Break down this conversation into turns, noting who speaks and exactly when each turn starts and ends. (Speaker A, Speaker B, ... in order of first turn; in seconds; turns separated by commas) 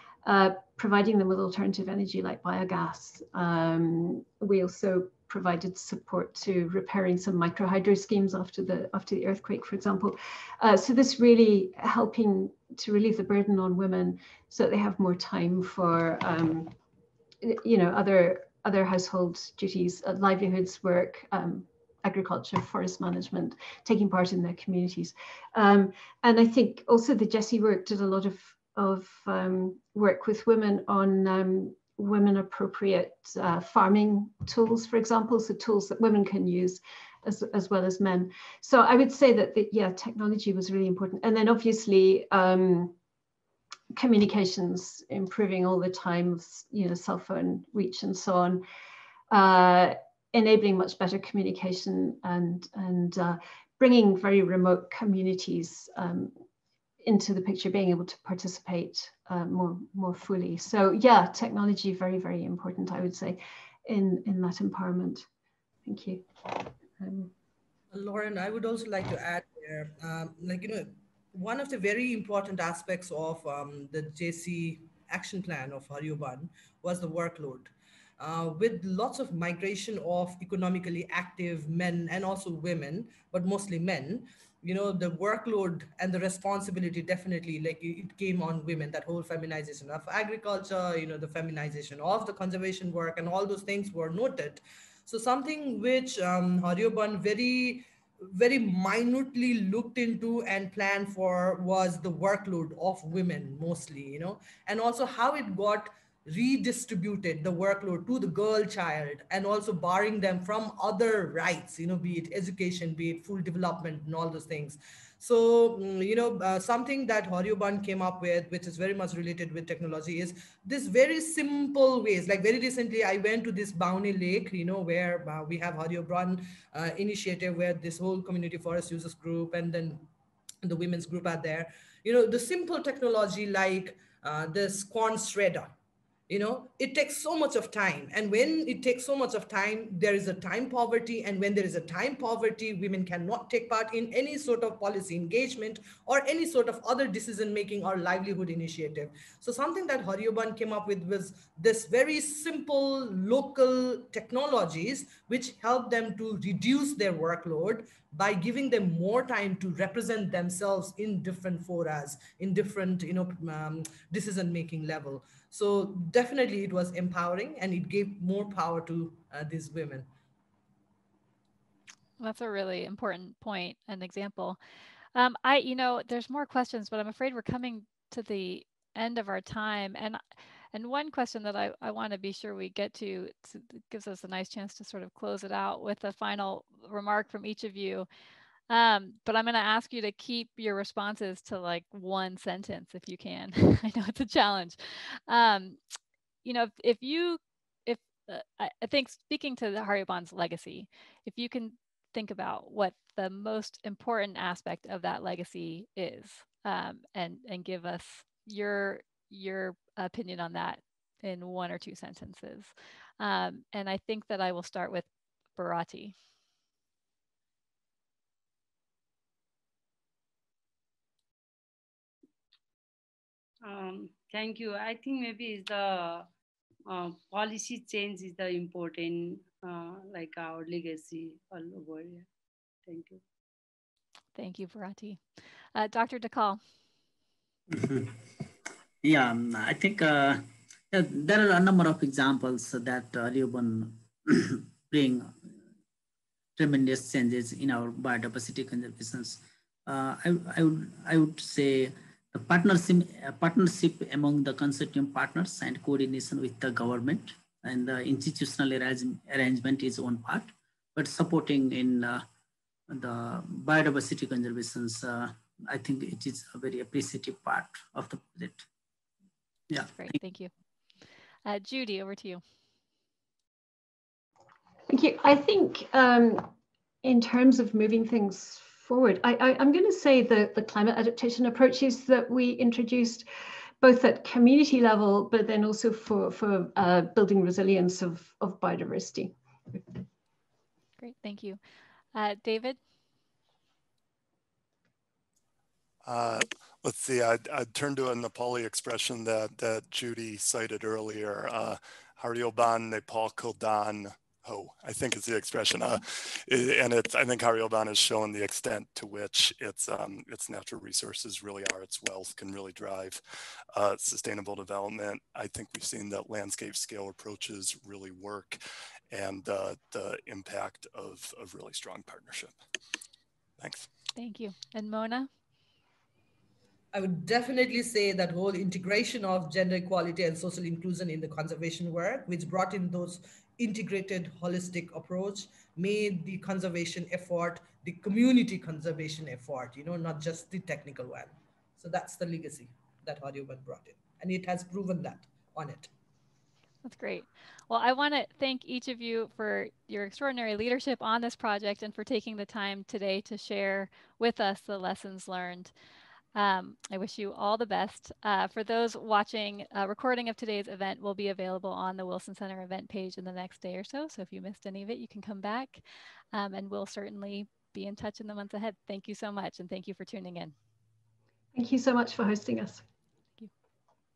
Speaker A: 0.2-16.7, Speaker A: 17.4-42.9, Speaker A: 43.9-48.6, Speaker A: 49.3-56.3, Speaker A: 57.0-65.2, Speaker A: 65.8-67.3, Speaker B: 67.9-130.0, Speaker B: 130.6-135.7, Speaker B: 136.3-170.1, Speaker C: 172.2-174.6, Speaker C: 175.1-180.2, Speaker C: 180.7-188.1, Speaker C: 188.7-195.8, Speaker C: 196.4-216.1, Speaker D: 223.6-226.3, Speaker D: 226.9-232.3, Speaker D: 232.8-233.2, Speaker C: 234.3-235.2, Speaker C: 235.7-236.6, Speaker E: 237.7-238.2, Speaker E: 239.0-245.4, Speaker E: 246.6-262.2, Speaker E: 262.9-268.7, Speaker E: 269.7-270.1, Speaker C: 269.9-270.5, Speaker C: 271.4-272.4, Speaker A: 274.9-276.5, Speaker A: 277.0-283.2, Speaker A: 283.8-289.8, Speaker C: 291.0-291.6, Speaker C: 292.1-292.8, Speaker F: 296.0-313.2, Speaker F: 313.7-318.6, Speaker F: 319.1-322.6, Speaker F: 323.6-323.9, Speaker C: 324.1-325.3, Speaker B: 326.9-345.9, Speaker C: 346.8-355.7, Speaker C: 356.3-370.5, Speaker A: 371.5-372.8